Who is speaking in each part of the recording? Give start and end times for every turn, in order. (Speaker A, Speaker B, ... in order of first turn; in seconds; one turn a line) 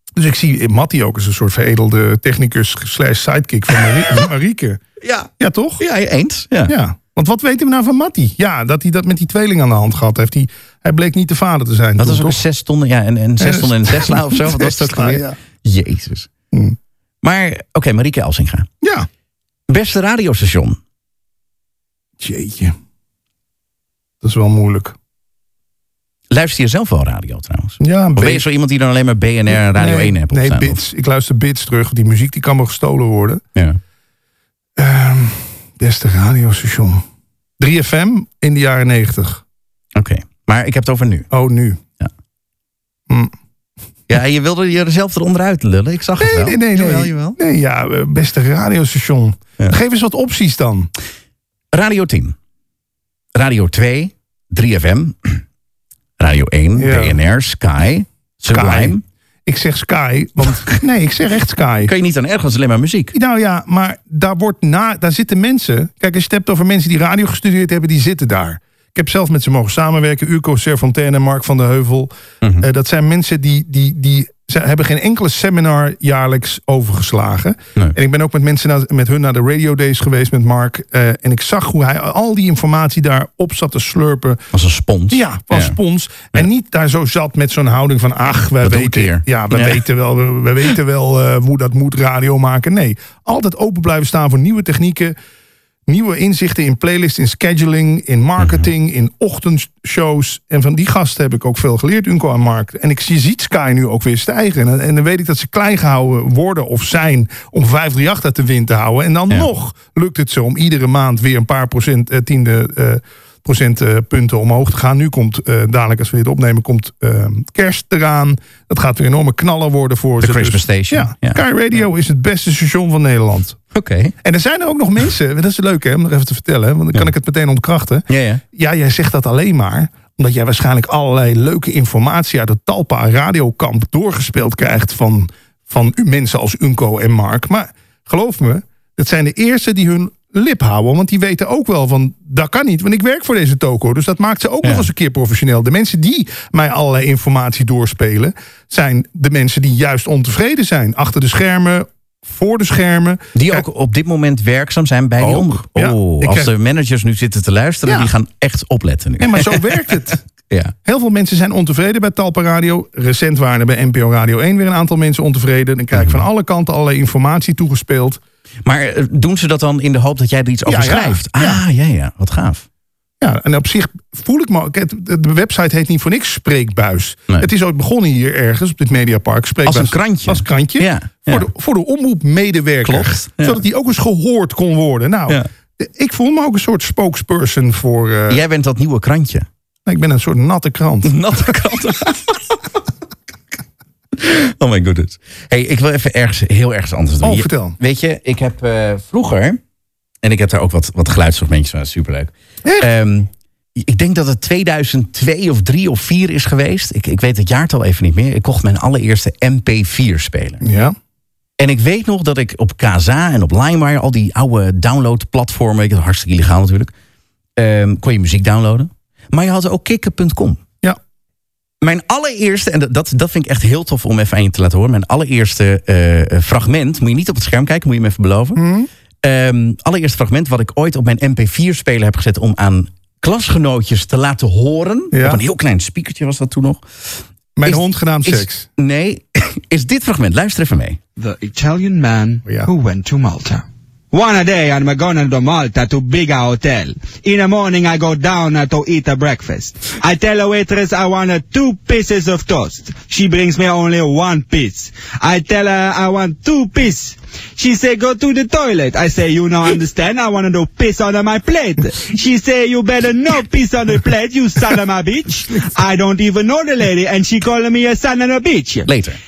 Speaker A: 0.2-5.8
Speaker B: 5.0-5.3
Speaker B: 5.8-6.8
Speaker A: 6.7-12.4
Speaker B: 12.0-16.3
Speaker A: 13.4-15.4
Speaker B: 17.2-18.7
Speaker A: 18.8-19.1
Speaker B: 19.7-20.8
Speaker A: 22.2-22.8
Speaker A: 24.2-24.9
Speaker B: 26.3-30.8
Speaker A: 27.8-28.4
Speaker A: 29.5-33.4
Speaker A: 34.8-37.0
Speaker A: 37.6-39.4
Speaker B: 40.0-41.3
Speaker A: 41.3-41.8
Speaker B: 44.1-47.4
Speaker A: 46.2-50.9
Speaker B: 51.7-52.4
Speaker B: 53.4-55.4
Speaker B: 56.2-59.0
Speaker A: 56.8-57.2
Speaker A: 58.5-59.0
Speaker A: 59.5-61.9
Speaker B: 61.9-63.1
Speaker A: 63.1-84.4
Speaker B: 84.5-85.8
Speaker A: 85.1-95.2
Speaker B: 88.6-89.8
Speaker A: 95.9-123.6
Speaker B: 98.4-98.7
Speaker B: 120.2-121.4
Speaker B: 123.7-124.1
Speaker A: 124.2-153.7
Speaker B: 128.1-128.4
Speaker B: 153.3-160.7
Speaker A: 155.2-156.5
Speaker A: 157.9-158.1
Speaker A: 159.2-160.2
Speaker A: 160.8-168.2
Speaker B: 165.9-166.2
Speaker B: 168.7-172.7
Speaker A: 170.7-171.6
Speaker A: 173.2-188.4
Speaker B: 179.7-181.5
Speaker B: 182.8-183.6
Speaker B: 188.3-189.5
Speaker A: 189.9-191.2
Speaker B: 191.1-192.6
Speaker B: 194.2-199.6
Speaker A: 197.2-197.8
Speaker B: 200.2-210.6
Speaker A: 210.6-210.9
Speaker B: 211.6-216.9
Speaker B: 217.6-220.6
Speaker B: 221.8-228.6
Speaker A: 228.6-228.9
Speaker B: 229.2-236.8
Speaker A: 235.1-235.4
Speaker A: 237.6-238.7
Speaker B: 237.7-241.0
Speaker C: 241.2-268.9
Speaker B: 268.9-269.2